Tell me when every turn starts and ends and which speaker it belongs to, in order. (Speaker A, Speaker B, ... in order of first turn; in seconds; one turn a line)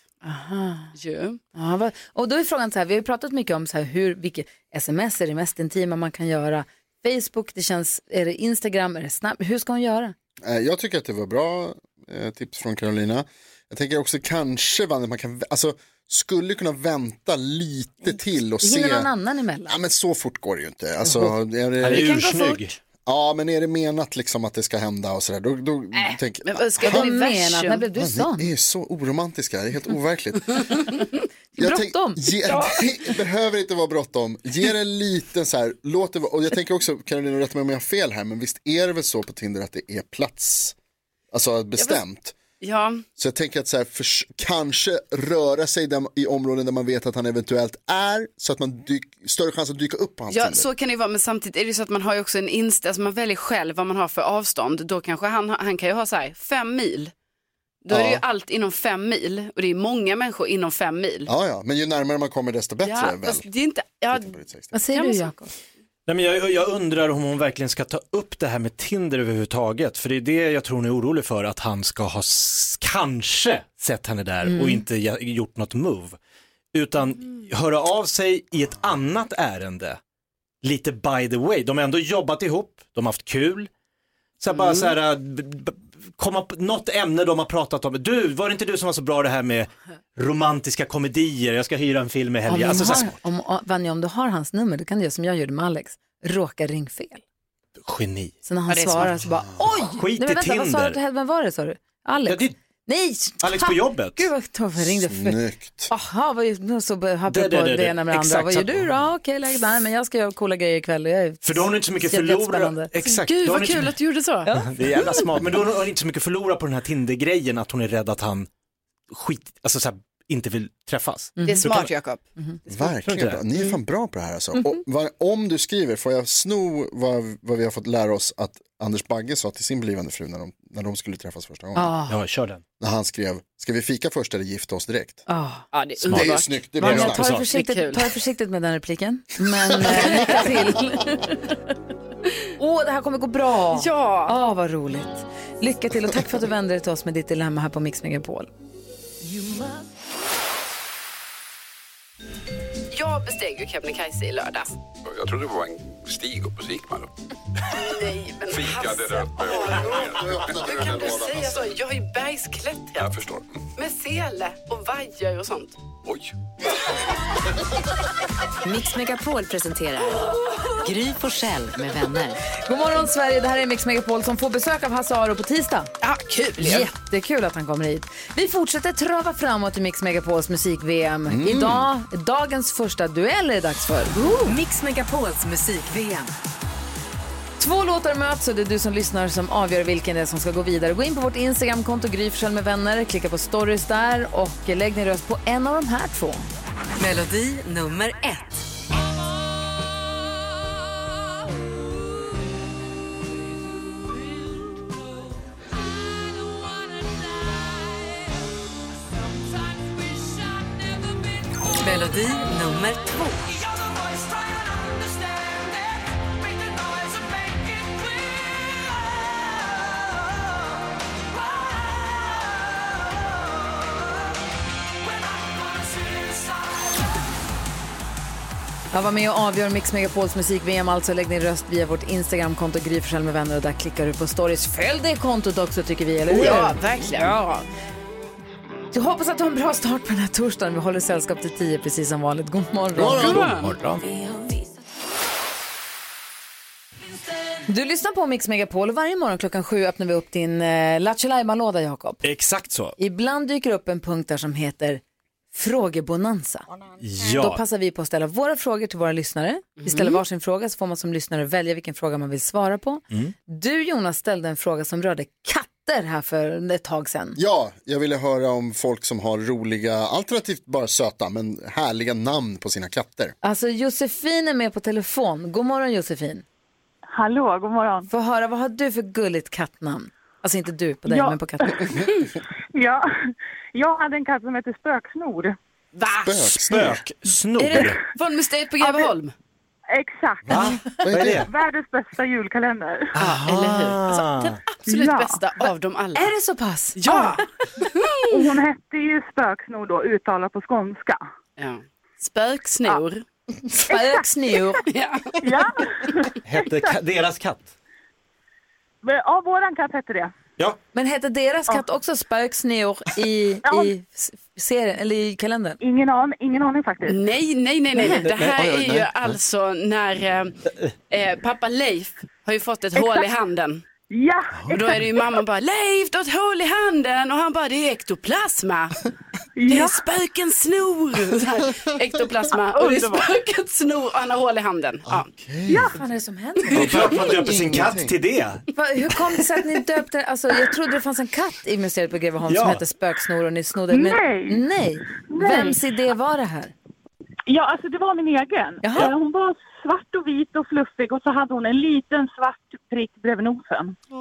Speaker A: 0.2-0.9
Speaker B: 0.9-1.4
Speaker A: 1.6-10.2
Speaker C: 10.4-19.1
Speaker A: 18.1-19.8
Speaker C: 19.7-22.2
Speaker D: 21.8-22.8
Speaker B: 21.9-22.6
Speaker C: 23.1-27.1
Speaker B: 25.9-27.8
Speaker A: 26.8-28.5
Speaker C: 27.9-30.9
Speaker A: 31.6-32.3
Speaker C: 31.6-40.8
Speaker C: 41.3-42.4
Speaker B: 42.6-43.0
Speaker C: 43.2-50.7
Speaker B: 50.3-57.1
Speaker B: 57.8-61.3
Speaker C: 57.9-58.2
Speaker C: 61.3-63.5
Speaker B: 62.8-64.3
Speaker C: 64.1-64.8
Speaker A: 64.7-65.5
Speaker B: 64.9-65.3
Speaker D: 66.1-76.2
Speaker A: 74.4-74.8
Speaker D: 76.7-80.0
Speaker D: 80.6-83.7
Speaker D: 84.4-93.2
Speaker B: 84.5-84.9
Speaker A: 92.5-97.2
Speaker D: 97.8-98.3
Speaker A: 98.5-112.9
Speaker B: 98.7-99.1
Speaker D: 99.9-101.0
Speaker D: 102.3-102.5
Speaker D: 103.4-104.3
Speaker C: 104.8-105.9
Speaker D: 107.3-109.0
Speaker D: 111.4-113.9
Speaker B: 113.0-114.5
Speaker D: 114.5-118.5
Speaker D: 119.1-121.9
Speaker A: 121.4-121.7
Speaker B: 121.5-122.2
Speaker C: 122.7-131.9
Speaker D: 123.0-123.4
Speaker A: 131.8-132.2
Speaker D: 132.1-132.6
Speaker C: 132.8-135.2
Speaker A: 135.3-135.7
Speaker B: 135.7-136.6
Speaker D: 136.1-137.5
Speaker C: 136.1-137.2
Speaker A: 136.8-141.6
Speaker B: 137.5-138.1
Speaker B: 139.9-140.5
Speaker A: 142.6-148.5
Speaker B: 143.7-144.3
Speaker B: 152.9-154.8
Speaker E: 155.0-157.1
Speaker B: 157.8-163.2
Speaker E: 158.5-161.5
Speaker C: 159.8-161.6
Speaker E: 163.0-163.6
Speaker B: 163.8-165.8
Speaker E: 166.0-166.3
Speaker F: 168.6-170.2
Speaker F: 170.8-172.4
Speaker A: 172.7-175.9
Speaker B: 176.0-176.9
Speaker A: 176.6-184.5
Speaker C: 181.3-181.9
Speaker F: 184.4-186.3
Speaker A: 187.6-196.5
Speaker F: 197.0-198.5
Speaker F: 211.8-213.4
Speaker A: 228.9-237.3
Speaker B: 236.3-237.7
Speaker A: 238.9-243.4
Speaker C: 242.9-243.5
Speaker D: 243.2-244.0
Speaker B: 243.2-243.7
Speaker A: 247.7-252.2
Speaker D: 252.2-252.9
Speaker A: 253.0-255.0
Speaker A: 255.5-256.7
Speaker D: 257.0-257.6
Speaker A: 257.3-267.4
Speaker B: 259.8-260.2
Speaker C: 267.4-273.3
Speaker A: 273.4-276.4
Speaker G: 277.1-278.1
Speaker A: 278.1-281.8
Speaker G: 281.1-281.9
Speaker G: 282.7-285.6
Speaker B: 286.0-286.4
Speaker C: 286.2-287.0
Speaker D: 286.6-288.0
Speaker B: 287.8-289.3
Speaker G: 288.8-289.1
Speaker G: 289.9-293.2
Speaker C: 290.5-291.5
Speaker D: 290.5-291.5
Speaker D: 293.2-294.6
Speaker B: 293.2-296.3
Speaker G: 294.9-295.4
Speaker A: 296.2-297.4
Speaker B: 297.0-298.5
Speaker G: 298.3-301.3
Speaker B: 301.6-303.2
Speaker A: 303.7-304.8
Speaker G: 303.9-304.2
Speaker B: 304.9-305.4
Speaker G: 305.4-307.0
Speaker D: 306.5-307.7
Speaker G: 309.0-310.3
Speaker A: 310.9-315.8
Speaker G: 313.6-313.9
Speaker G: 315.8-317.2
Speaker B: 317.1-320.6
Speaker A: 318.0-318.2
Speaker C: 318.3-319.3
Speaker B: 321.1-323.9
Speaker G: 323.0-323.3
Speaker G: 324.1-325.4
Speaker B: 324.7-329.0
Speaker G: 329.6-330.0
Speaker B: 329.7-335.3
Speaker G: 332.7-333.3
Speaker C: 335.1-335.9
Speaker G: 335.7-336.0
Speaker A: 335.9-337.1
Speaker C: 336.7-338.1
Speaker D: 336.7-338.6
Speaker A: 338.7-346.7
Speaker D: 342.5-342.8
Speaker G: 343.9-344.6
Speaker G: 345.3-345.8
Speaker G: 347.5-354.0
Speaker A: 348.8-349.1